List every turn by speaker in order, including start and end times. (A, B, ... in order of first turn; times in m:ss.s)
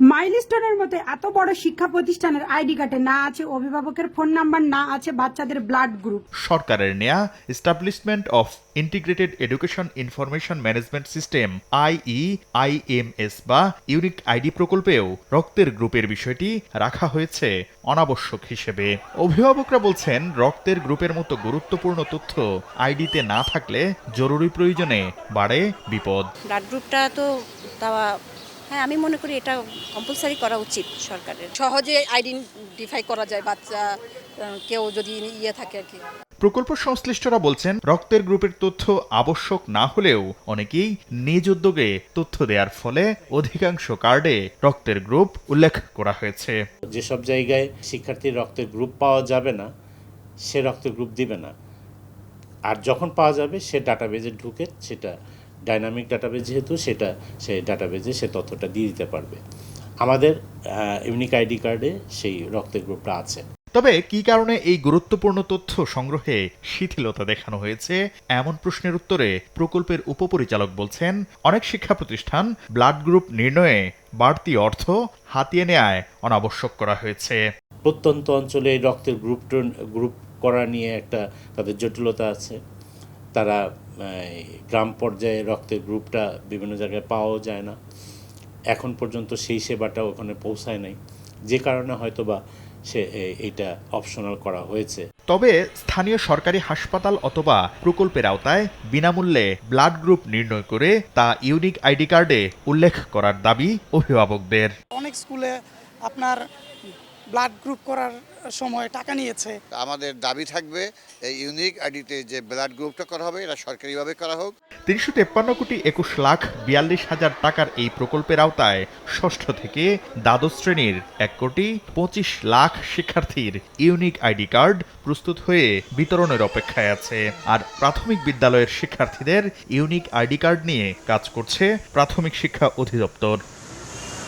0:00.1-0:06.2 A
0:06.4-0:26.3 B
0:26.5-0:27.2 C
0:28.7-0:31.5 C
0:31.6-0:33.9 D
0:34.4-0:36.0 D
0:36.4-0:46.6 B
0:46.9-0:49.7 E
0:50.5-0:51.5 E
0:52.7-0:55.1 E
0:55.7-0:59.4 E
1:00.0-1:00.3 E
1:01.1-1:03.4 E
1:03.7-1:17.4 B
1:17.8-1:22.6 E
1:24.1-1:27.8 E
1:28.7-1:31.0 E
1:31.5-1:35.0 E
1:35.3-1:44.7 B
1:45.0-1:45.5 F
1:46.1-1:46.4 F
1:47.3-1:49.5 F
1:49.8-1:50.8 G
1:51.4-1:54.5 G
1:54.9-2:13.4 B